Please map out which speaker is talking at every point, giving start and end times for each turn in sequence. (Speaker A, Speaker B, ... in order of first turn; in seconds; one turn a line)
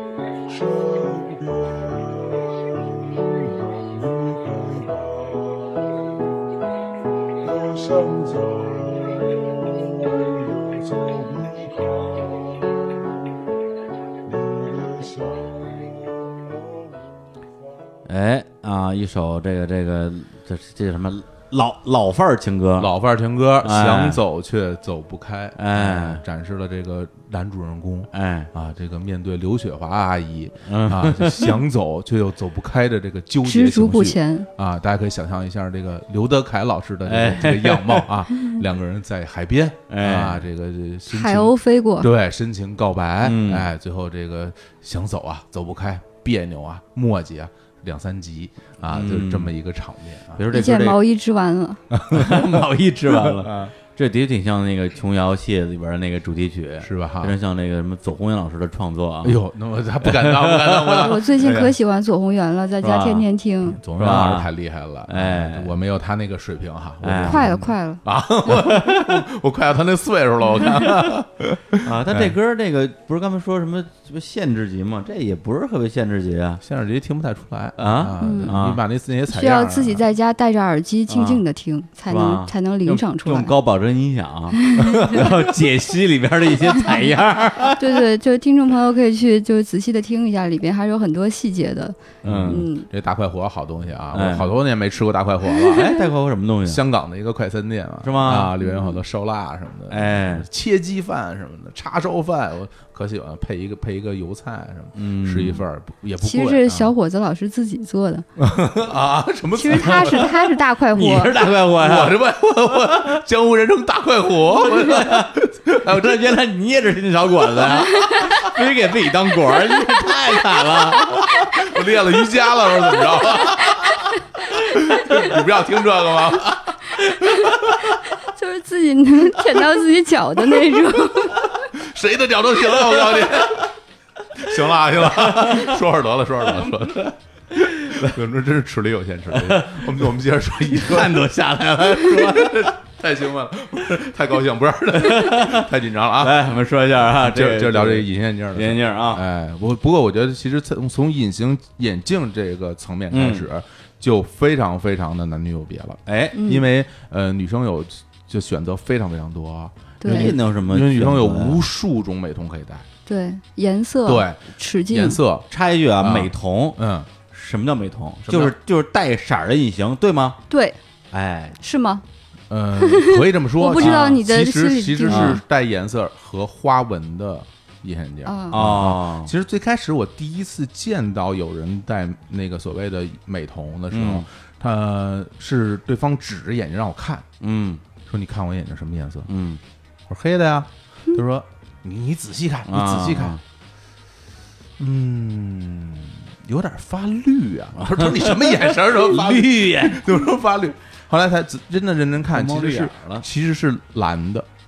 Speaker A: 0.5-6.5
Speaker A: 7.4-13.1
Speaker A: 14.2-17.1
Speaker B: 18.1-22.9
Speaker C: 22.8-50.5
Speaker B: 23.6-24.2
Speaker B: 25.6-26.2
Speaker B: 28.1-28.5
Speaker B: 30.7-31.6
Speaker D: 33.4-34.5
Speaker B: 37.1-38.1
Speaker B: 39.9-40.4
Speaker D: 41.1-42.1
Speaker B: 43.2-43.7
Speaker B: 48.9-49.5
Speaker B: 50.4-51.0
Speaker D: 50.5-51.8
Speaker C: 51.9-53.7
Speaker B: 52.1-59.4
Speaker C: 56.8-57.4
Speaker C: 59.2-61.8
Speaker B: 60.0-61.1
Speaker D: 61.0-63.8
Speaker B: 62.8-63.3
Speaker C: 63.7-72.3
Speaker B: 64.0-64.5
Speaker B: 65.1-65.8
Speaker B: 67.0-67.6
Speaker D: 67.2-68.0
Speaker B: 68.5-69.2
Speaker B: 71.8-76.6
Speaker C: 76.6-80.0
Speaker B: 77.8-78.8
Speaker D: 78.2-78.6
Speaker D: 79.3-83.5
Speaker B: 81.1-81.4
Speaker B: 82.1-88.0
Speaker D: 84.6-85.3
Speaker D: 87.8-92.9
Speaker B: 92.2-92.7
Speaker C: 92.2-95.9
Speaker B: 94.1-94.6
Speaker B: 95.7-96.8
Speaker C: 96.7-106.9
Speaker B: 98.0-98.5
Speaker D: 98.6-99.0
Speaker B: 99.9-100.5
Speaker B: 105.0-105.6
Speaker D: 106.2-108.3
Speaker C: 108.4-110.4
Speaker D: 109.6-111.3
Speaker B: 109.7-110.4
Speaker B: 110.9-112.2
Speaker C: 111.8-116.3
Speaker B: 112.8-113.2
Speaker B: 114.5-121.3
Speaker D: 117.7-118.3
Speaker C: 121.3-127.9
Speaker D: 127.2-127.7
Speaker D: 128.2-131.5
Speaker C: 131.7-133.7
Speaker B: 132.9-133.4
Speaker C: 134.4-141.3
Speaker B: 135.2-135.8
Speaker B: 137.6-138.1
Speaker B: 139.3-142.7
Speaker C: 142.0-146.4
Speaker B: 145.0-145.7
Speaker B: 146.2-149.2
Speaker C: 147.2-162.9
Speaker B: 153.1-153.5
Speaker B: 156.1-156.4
Speaker D: 156.3-156.7
Speaker D: 160.0-160.3
Speaker B: 160.1-161.6
Speaker D: 163.1-165.2
Speaker C: 164.1-165.5
Speaker B: 165.5-170.4
Speaker C: 166.0-167.1
Speaker C: 168.2-168.5
Speaker D: 170.5-170.8
Speaker B: 171.1-171.6
Speaker D: 171.6-172.0
Speaker C: 172.5-187.3
Speaker D: 172.8-175.4
Speaker B: 173.8-174.2
Speaker B: 175.1-175.4
Speaker D: 178.2-178.6
Speaker B: 178.5-179.3
Speaker B: 183.9-184.3
Speaker B: 187.4-187.8
Speaker C: 188.1-189.3
Speaker B: 189.3-189.6
Speaker C: 190.1-193.4
Speaker B: 192.7-193.4
Speaker C: 194.8-204.5
Speaker B: 197.8-200.1
Speaker B: 202.3-203.2